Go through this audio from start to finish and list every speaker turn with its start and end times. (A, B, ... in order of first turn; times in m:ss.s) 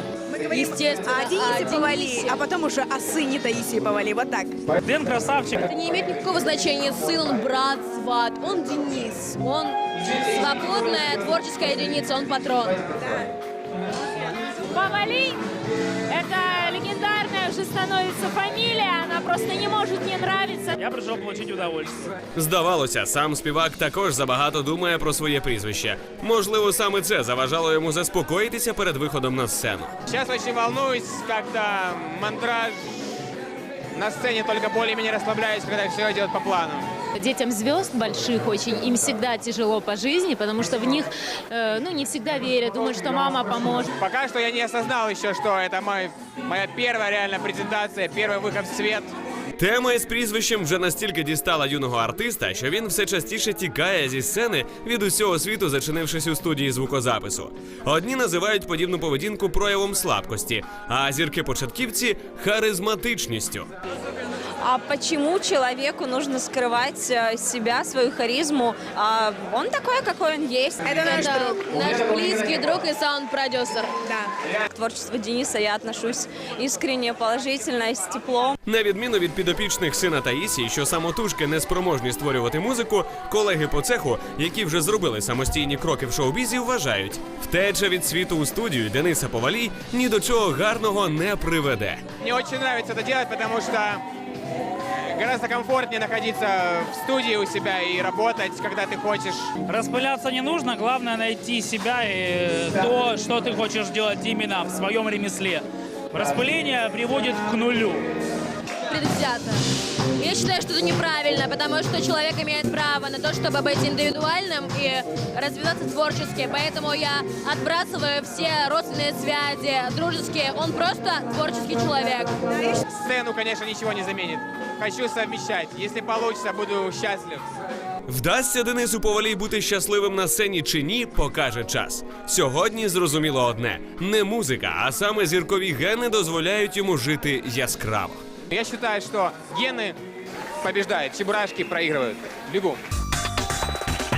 0:00.3-0:04.6 A
0:00.6-0:02.4 B
0:04.8-0:05.6 C
0:05.6-0:12.8 B
0:13.0-0:13.3 A
0:14.7-0:15.4 D
0:16.1-0:20.8 D
0:20.8-0:22.0 C
0:22.3-0:29.9 E
0:30.1-0:32.8 F
0:33.9-0:36.9 F
0:37.1-0:43.9 D
0:44.0-0:49.1 F
0:49.6-1:03.7 E
1:04.6-1:11.0 G
1:10.8-1:11.8 A
1:11.2-1:13.9 B
1:14.0-1:14.3 A
1:14.7-1:18.6 G
1:18.6-1:32.0 E
1:32.2-1:34.0 F
1:35.1-1:39.4 F
1:39.7-1:48.0 C
1:48.9-1:49.6 B
1:50.2-2:02.3 B
2:02.5-2:02.8 A
2:02.9-2:07.4 F
2:08.1-2:18.2 E
2:18.5-2:19.9 F
2:20.6-2:22.8 F